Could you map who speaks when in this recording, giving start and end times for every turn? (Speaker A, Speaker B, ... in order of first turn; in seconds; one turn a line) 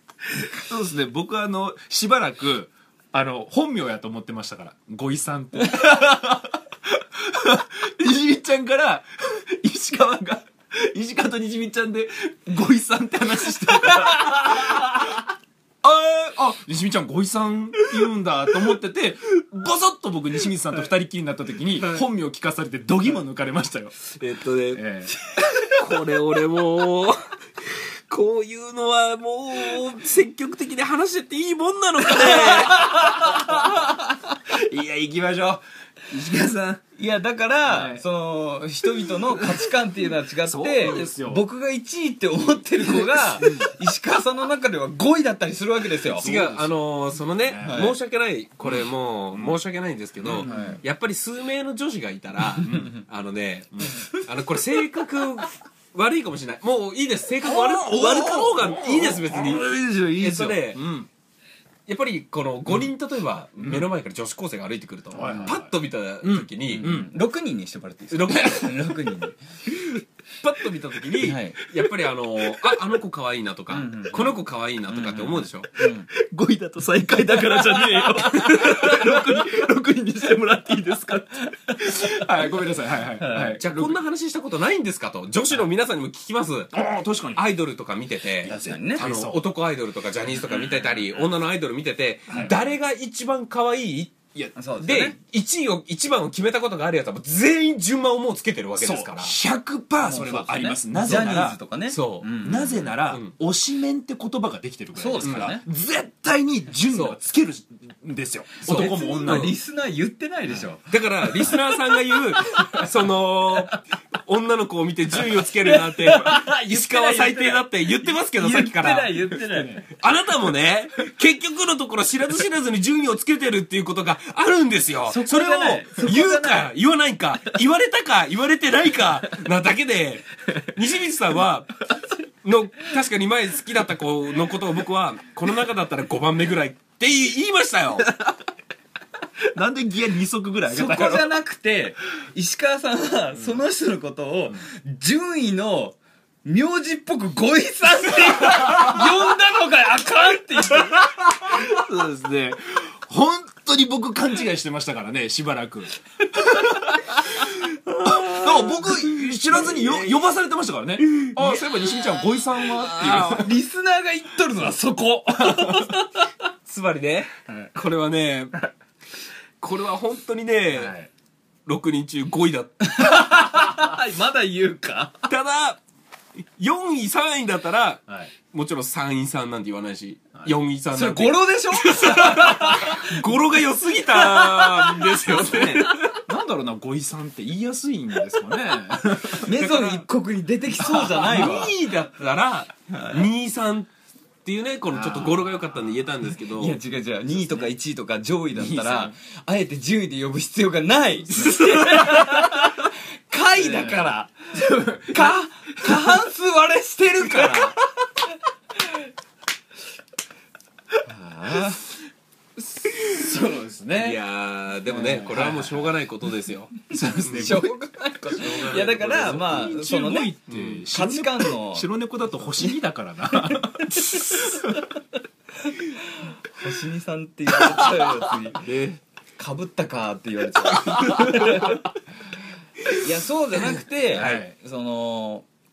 Speaker A: 0.4-15.3
Speaker A: 15.8-24.2
Speaker B: 21.7-22.1
Speaker B: 24.2-24.9
Speaker A: 24.7-25.2
Speaker B: 25.5-33.2
Speaker A: 32.2-34.0
Speaker C: 32.8-33.8
Speaker A: 34.5-36.8
Speaker C: 37.0-46.3
Speaker A: 37.7-38.0
Speaker A: 39.1-39.7
Speaker A: 40.4-41.4
Speaker A: 42.8-43.7
Speaker B: 43.4-43.7
Speaker A: 46.1-46.8
Speaker B: 46.2-60.9
Speaker A: 47.4-47.9
Speaker C: 47.6-48.0
Speaker A: 48.6-49.6
Speaker A: 50.2-50.7
Speaker C: 50.4-50.8
Speaker A: 52.6-53.0
Speaker A: 53.7-54.0
Speaker A: 57.4-61.1
Speaker B: 61.9-66.9
Speaker A: 63.6-63.9
Speaker A: 65.1-67.1
Speaker C: 65.2-65.6
Speaker C: 66.7-69.4
Speaker B: 68.1-69.0
Speaker B: 70.4-75.7
Speaker C: 71.2-71.6
Speaker C: 73.7-76.1
Speaker A: 76.1-84.0
Speaker B: 77.9-79.2
Speaker C: 81.9-82.1
Speaker C: 83.2-83.6
Speaker B: 83.6-86.7
Speaker A: 86.7-87.4
Speaker B: 87.3-94.2
Speaker A: 88.4-89.5
Speaker C: 88.5-89.1
Speaker A: 90.5-91.0
Speaker A: 92.3-92.6
Speaker C: 94.6-95.2
Speaker B: 94.8-99.4
Speaker A: 98.8-101.6
Speaker C: 100.0-102.9
Speaker B: 101.0-101.3
Speaker B: 101.9-103.3
Speaker A: 102.4-109.6
Speaker C: 105.0-105.7
Speaker B: 105.2-105.5
Speaker B: 106.9-107.2
Speaker C: 108.6-111.8
Speaker B: 108.7-109.6
Speaker B: 110.8-131.9
Speaker C: 115.6-119.8
Speaker A: 119.5-119.9
Speaker C: 125.1-126.7
Speaker B: 132.4-138.1
Speaker A: 139.5-141.3
Speaker C: 140.7-151.2
Speaker A: 148.5-149.0
Speaker A: 150.9-163.6
Speaker B: 157.9-160.2
Speaker B: 161.0-162.0
Speaker B: 162.6-163.5
Speaker C: 163.2-166.2
Speaker A: 165.4-165.8
Speaker B: 166.7-168.6
Speaker B: 169.6-171.0
Speaker A: 170.7-171.1
Speaker B: 171.7-172.9
Speaker C: 172.8-175.3
Speaker B: 175.3-175.8
Speaker B: 176.6-186.2
Speaker C: 180.9-183.1
Speaker A: 184.3-190.0
Speaker C: 189.4-191.8
Speaker A: 191.0-191.5
Speaker B: 191.1-193.9
Speaker B: 194.4-196.8
Speaker A: 194.9-196.0
Speaker C: 196.6-204.3
Speaker A: 198.5-199.1
Speaker A: 201.4-202.5
Speaker A: 203.6-206.2
Speaker C: 205.1-207.8
Speaker A: 207.3-207.6
Speaker C: 211.1-211.8
Speaker A: 212.6-214.2
Speaker B: 213.9-217.7
Speaker A: 214.9-215.9
Speaker A: 216.9-217.7
Speaker C: 217.3-220.4
Speaker B: 218.3-219.7
Speaker A: 219.0-224.8
Speaker B: 220.5-220.8
Speaker C: 220.9-221.9
Speaker C: 223.4-224.7
Speaker C: 225.6-228.7
Speaker B: 228.6-229.0
Speaker C: 229.4-231.8
Speaker B: 231.1-231.6
Speaker C: 232.9-235.5
Speaker B: 233.7-234.4
Speaker A: 234.1-234.5